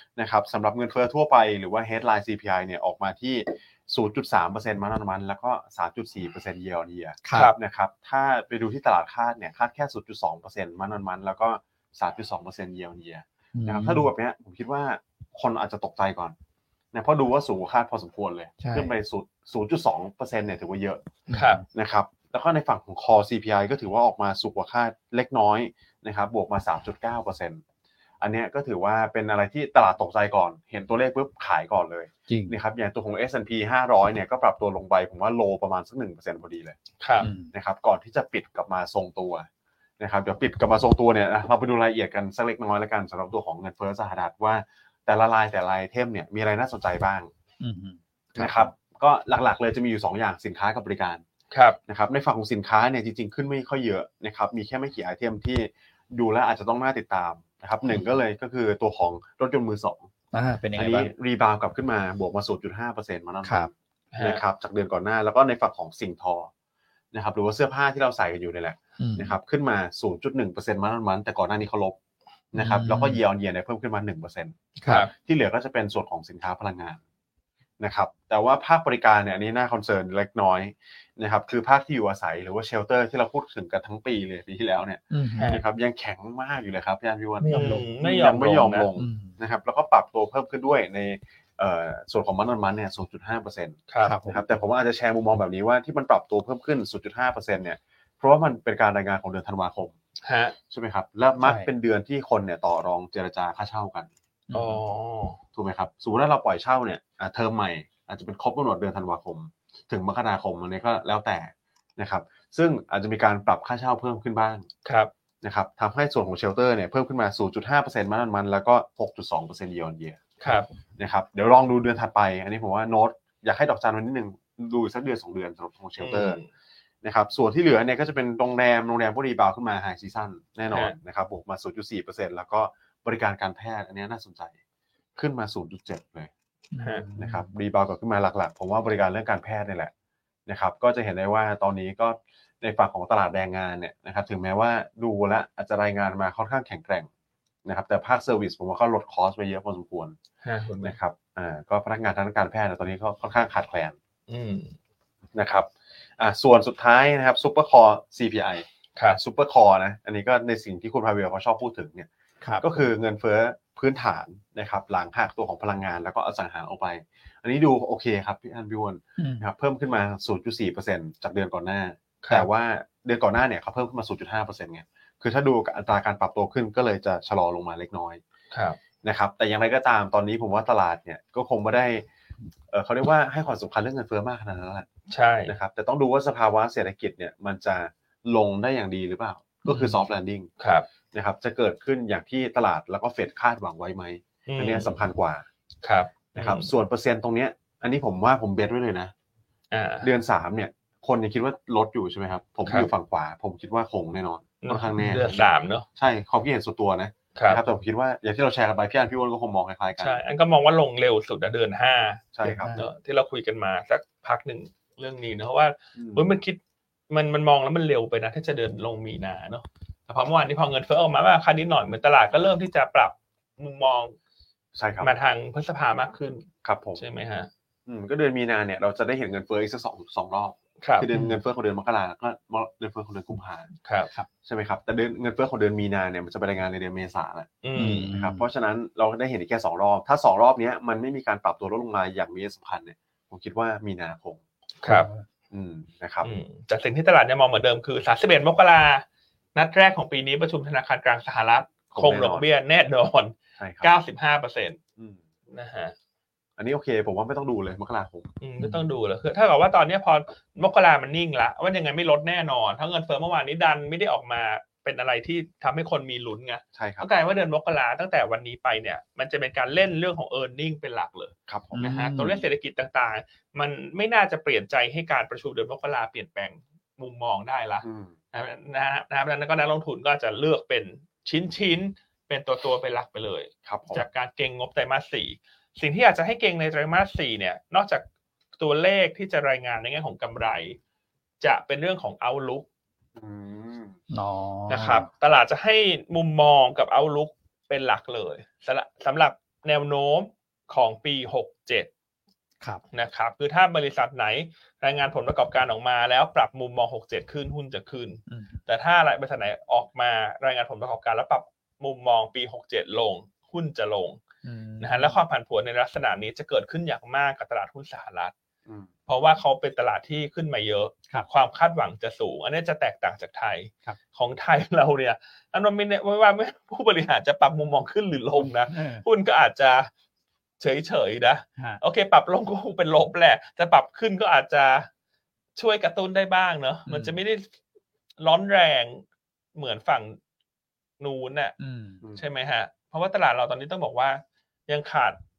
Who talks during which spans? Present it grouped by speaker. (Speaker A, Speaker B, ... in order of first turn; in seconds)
Speaker A: 0.2-16.4, 16.9-21.2, 21.7-27.6, 28.2-36.8, 37.5-39.5, 40.0-47.3, 48.4-51.2, 51.9-60.1, 60.8-66.5, 67.1-72.0, 72.5-77.0, 77.8-99.9, 100.7-104.1, 105.5-114.7, 115.4-120.2, 121.0-126.4, 127.0-134.6, 135.2-136.3, 137.2-139.9, 140.5-147.1, 147.7-150.2, 150.8-153.9, 155.3-162.1, 162.6-178.2, 179.0-182.1, 182.7-184.9, 185.5-190.5, 191.1-195.4, 196.4-199.1, 200.0-210.2, 212.3-212.7, 216.0-216.3, 224.8-225.1, 226.6-227.0, 227.9-233.7, 234.4-244.4, 245.5-246.3, 251.9-252.4, 253.6-253.9, 256.6-258.3, 266.8-267.1, 271.5-271.9, 277.8-278.1, 283.7-284.1, 293.2-294.0
Speaker B: 7.2-7.5, 13.5-14.1, 18.6-18.9, 21.3-21.6, 32.3-32.5, 37.2-37.5, 47.6-48.7, 60.3-61.1, 63.4-63.7, 69.0-69.3, 72.6-73.2, 85.1-85.6, 87.4-87.9, 89.0-89.4, 94.0-94.4, 101.4-101.7, 104.5-104.8, 136.7-137.5, 162.4-162.7, 169.2-169.5, 189.7-190.0, 212.4-212.9, 231.1-231.4, 237.8-238.5, 244.8-245.2, 271.7-272.4, 294.1-295.1, 308.3-308.6, 314.4-315.2, 328.4-329.1, 336.9-337.2, 341.6-342.0
Speaker C: 21.3-21.6, 37.0-37.3, 51.5-51.8, 64.1-64.4, 74.8-75.1, 87.5-88.9, 93.9-94.2, 100.2-100.6, 104.5-105.4, 114.8-115.1, 120.4-120.7, 126.0-126.5, 130.7-131.0, 136.8-137.1, 150.4-151.0, 154.3-154.7, 178.5-178.8, 185.1-185.5, 190.6-190.9, 194.5-194.9, 195.8-196.7, 199.7-200.1, 204.6-205.9, 207.3-207.6, 210.0-224.2, 225.0-227.5, 233.8-234.1, 237.6-238.1, 244.8-245.1, 246.2-254.8, 255.5-255.9, 258.4-288.1, 288.6-290.8, 291.4-292.7, 294.7-301.9, 302.9-314.2, 314.8-318.3, 319.1-329.9, 330.6-334.9, 335.6-337.5, 338.2-340.2, 341.0-341.6, 342.2-345.2